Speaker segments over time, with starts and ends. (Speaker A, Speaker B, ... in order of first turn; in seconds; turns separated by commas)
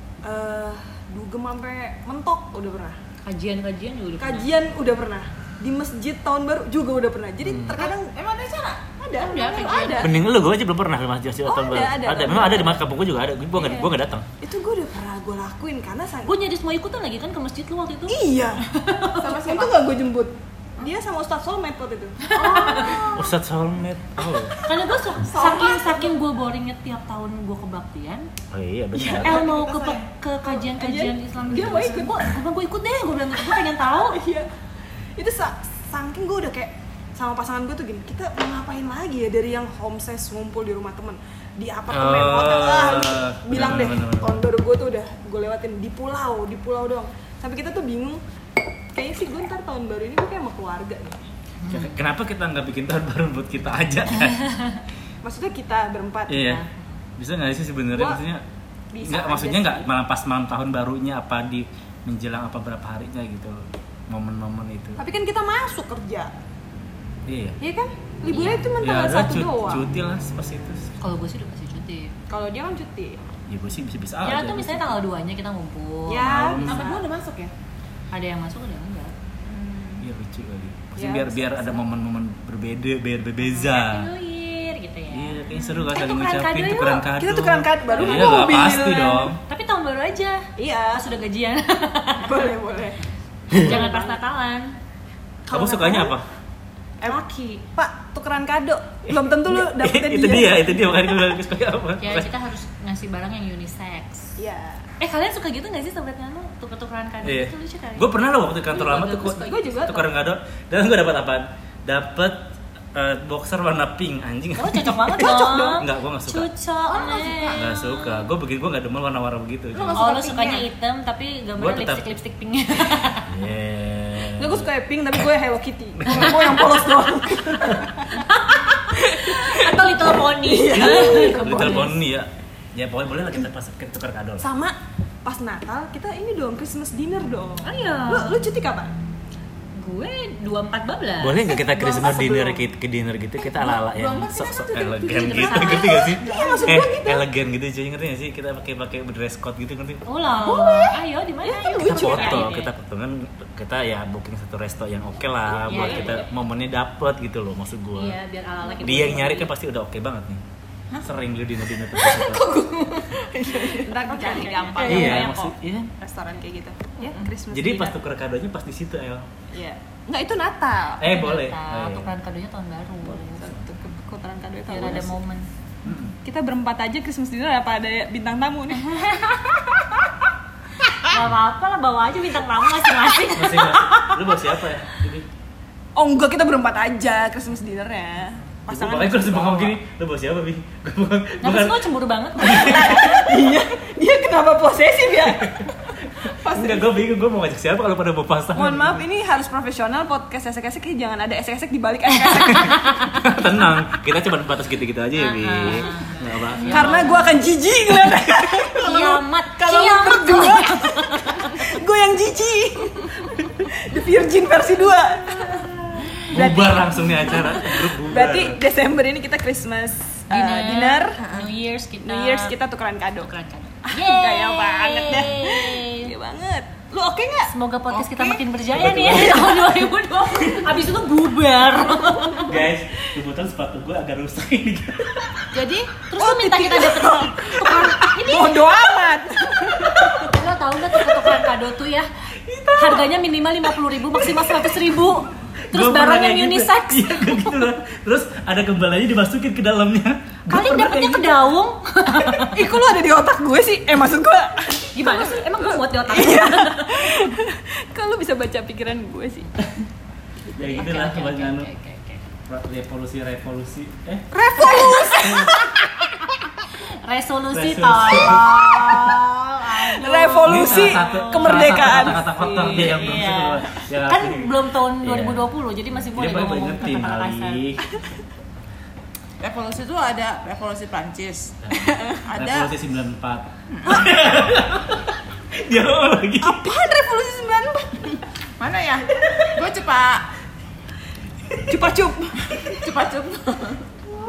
Speaker A: 0.2-3.0, Speaker B: 3.2-4.5, Speaker A: 4.2-8.1, Speaker C: 7.4-7.8, Speaker D: 7.8-10.0, Speaker A: 9.0-10.1, Speaker B: 9.2-10.0, Speaker C: 10.0-14.3, Speaker A: 11.4-12.8, Speaker A: 13.5-16.4, Speaker B: 16.3-19.3, Speaker A: 18.1-18.6, Speaker D: 19.1-19.8, Speaker A: 19.2-22.3, Speaker B: 22.3-23.1, Speaker D: 22.4-23.4, Speaker C: 23.1-24.5, Speaker B: 24.6-28.3, Speaker D: 25.2-26.1, Speaker C: 28.5-29.4, Speaker B: 29.1-34.2, Speaker D: 29.1-30.1, Speaker A: 30.6-32.2, Speaker A: 34.0-34.5, Speaker A: 35.2-48.2, Speaker C: 41.9-44.4, Speaker A: 48.9-51.2, Speaker B: 51.6-52.0, Speaker C: 51.7-54.5, Speaker B: 54.4-54.8, Speaker A: 55.2-56.5, Speaker C: 56.3-56.6, Speaker B: 56.4-56.9, Speaker C: 57.2-58.4, Speaker A: 57.9-58.2, Speaker A: 58.9-59.9, Speaker C: 59.0-65.0, Speaker A: 65.0-66.3, Speaker C: 67.3-67.6, Speaker A: 67.6-69.9, Speaker B: 68.3-68.6, Speaker C: 68.8-70.9, Speaker B: 71.0-72.2, Speaker A: 72.3-73.2, Speaker C: 73.5-75.0, Speaker B: 74.2-76.4, Speaker A: 76.1-77.0, Speaker C: 76.2-76.8, Speaker D: 76.6-77.5, Speaker B: 78.1-79.1, Speaker D: 79.5-80.0, Speaker C: 80.0-84.1, Speaker A: 81.0-81.8, Speaker B: 83.4-87.0, Speaker C: 85.1-89.4, Speaker A: 87.0-89.3, Speaker B: 88.0-88.4, Speaker B: 89.5-92.4, Speaker A: 90.6-91.1, Speaker A: 92.2-93.0, Speaker C: 93.5-93.8, Speaker A: 93.5-94.2, Speaker B: 93.5-94.8, Speaker A: 95.5-96.2, Speaker C: 95.5-96.3, Speaker B: 97.0-97.6, Speaker A: 97.8-101.3, Speaker C: 99.1-102.3, Speaker B: 102.0-104.4, Speaker A: 104.4-104.8, Speaker B: 105.0-108.1, Speaker C: 107.2-116.5, Speaker B: 108.7-109.7, Speaker A: 109.3-110.1, Speaker B: 114.6-118.2, Speaker A: 115.2-115.9, Speaker D: 116.9-117.7, Speaker C: 117.6-120.0, Speaker D: 119.7-120.7, Speaker B: 119.9-123.3, Speaker C: 121.6-122.1, Speaker C: 123.3-124.7, Speaker A: 124.2-128.1, Speaker C: 126.0-126.8, Speaker D: 126.1-127.8, Speaker C: 127.5-127.8, Speaker B: 128.1-131.9, Speaker A: 128.9-132.0, Speaker C: 130.7-134.5, Speaker A: 134.4-138.9, Speaker B: 137.6-138.4, Speaker B: 139.8-141.6, Speaker C: 141.2-150.0, Speaker A: 141.5-142.7, Speaker D: 143.7-145.0, Speaker A: 144.8-147.3, Speaker B: 145.1-146.2, Speaker D: 146.2-146.8, Speaker B: 150.1-152.7, Speaker A: 150.5-152.5, Speaker C: 151.8-158.2, Speaker A: 155.7-156.2, Speaker B: 155.7-156.3, Speaker B: 157.9-159.5, Speaker C: 158.8-160.4, Speaker C: 161.0-162.5, Speaker A: 162.0-168.0, Speaker D: 162.6-163.0, Speaker B: 164.1-165.5, Speaker D: 164.8-165.1, Speaker C: 164.8-165.9, Speaker C: 167.5-169.3, Speaker A: 169.5-171.0, Speaker C: 171.0-172.1, Speaker B: 171.0-173.5, Speaker A: 173.1-175.2, Speaker B: 174.7-175.5, Speaker C: 175.8-176.2, Speaker A: 176.2-179.1, Speaker B: 178.8-180.0, Speaker B: 180.9-184.3, Speaker C: 183.3-185.3, Speaker A: 186.0-189.8, Speaker C: 188.7-193.2, Speaker B: 191.4-193.2, Speaker A: 192.4-195.6, Speaker C: 195.4-195.7, Speaker C: 196.2-199.0, Speaker A: 196.3-197.0, Speaker A: 198.5-202.9, Speaker B: 202.3-203.2, Speaker C: 203.1-207.0, Speaker B: 205.2-207.4, Speaker A: 206.7-221.3, Speaker B: 208.6-211.6, Speaker B: 215.5-216.2, Speaker C: 216.3-218.6, Speaker B: 220.3-222.6, Speaker D: 221.2-221.5, Speaker A: 222.0-223.3, Speaker B: 223.2-226.1, Speaker A: 223.9-227.5, Speaker B: 227.5-232.7, Speaker D: 227.9-228.4, Speaker C: 228.7-230.8, Speaker C: 232.4-235.5, Speaker D: 235.5-235.9, Speaker B: 236.1-238.8, Speaker A: 236.2-240.3, Speaker B: 240.2-242.1, Speaker C: 242.4-243.1, Speaker B: 242.8-247.7, Speaker C: 245.7-251.4, Speaker B: 250.5-252.7, Speaker A: 252.1-259.5, Speaker B: 254.9-257.3, Speaker C: 260.5-261.7, Speaker B: 260.6-262.2, Speaker C: 262.5-264.3, Speaker A: 264.3-265.6, Speaker D: 264.6-265.5, Speaker B: 264.6-265.2, Speaker C: 265.2-265.5, Speaker B: 266.7-277.6, Speaker C: 267.5-269.2, Speaker A: 268.3-272.9, Speaker C: 270.5-278.0, Speaker D: 279.4-281.6, Speaker C: 281.6-286.7, Speaker A: 281.9-282.2, Speaker D: 282.2-282.7, Speaker D: 283.7-284.1, Speaker A: 286.4-288.2, Speaker D: 288.6-290.3, Speaker C: 291.5-291.7, Speaker A: 291.7-292.9, Speaker D: 292.6-293.9